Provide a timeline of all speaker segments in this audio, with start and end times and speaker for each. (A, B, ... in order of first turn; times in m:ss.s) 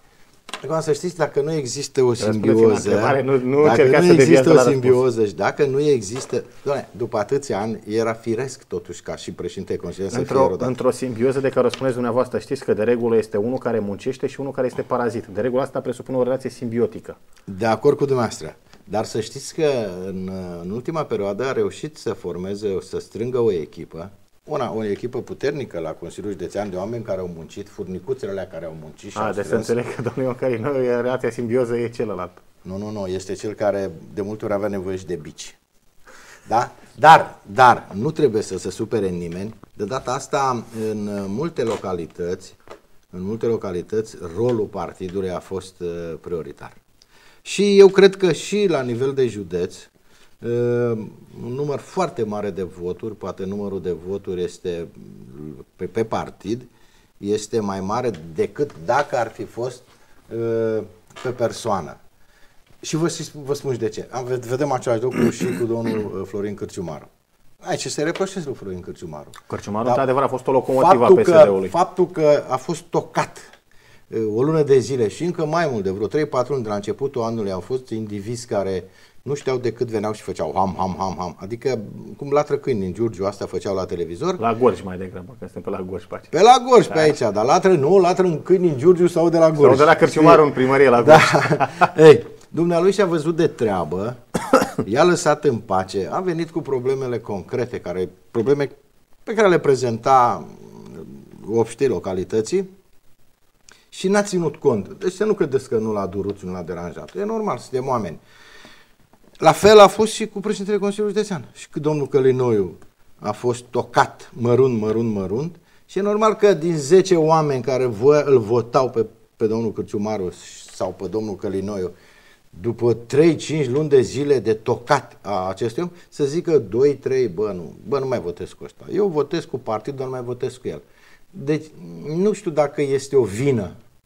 0:00.6-0:10.8 A
0:02.2-0:05.0 B
0:10.1-0:17.2 B
0:17.5-0:29.7 A
0:29.1-0:32.4 B
0:32.6-0:35.6 A
0:36.4-0:42.6 A
0:43.1-0:46.8 A
0:47.4-0:49.9 A
0:50.4-1:02.0 A
1:02.8-1:07.1 A
1:07.6-1:10.0 A
1:09.5-1:11.7 B
1:10.8-1:13.4 A
1:14.1-1:24.4 A
1:24.4-1:26.3 B
1:26.3-1:30.4 A
1:26.9-1:27.1 B
1:29.6-1:31.9 B
1:31.0-1:34.2 A
1:34.8-1:38.8 A
1:39.2-1:42.7 A
1:43.9-1:48.2 A
1:49.4-2:01.9 A
2:02.5-2:13.8 A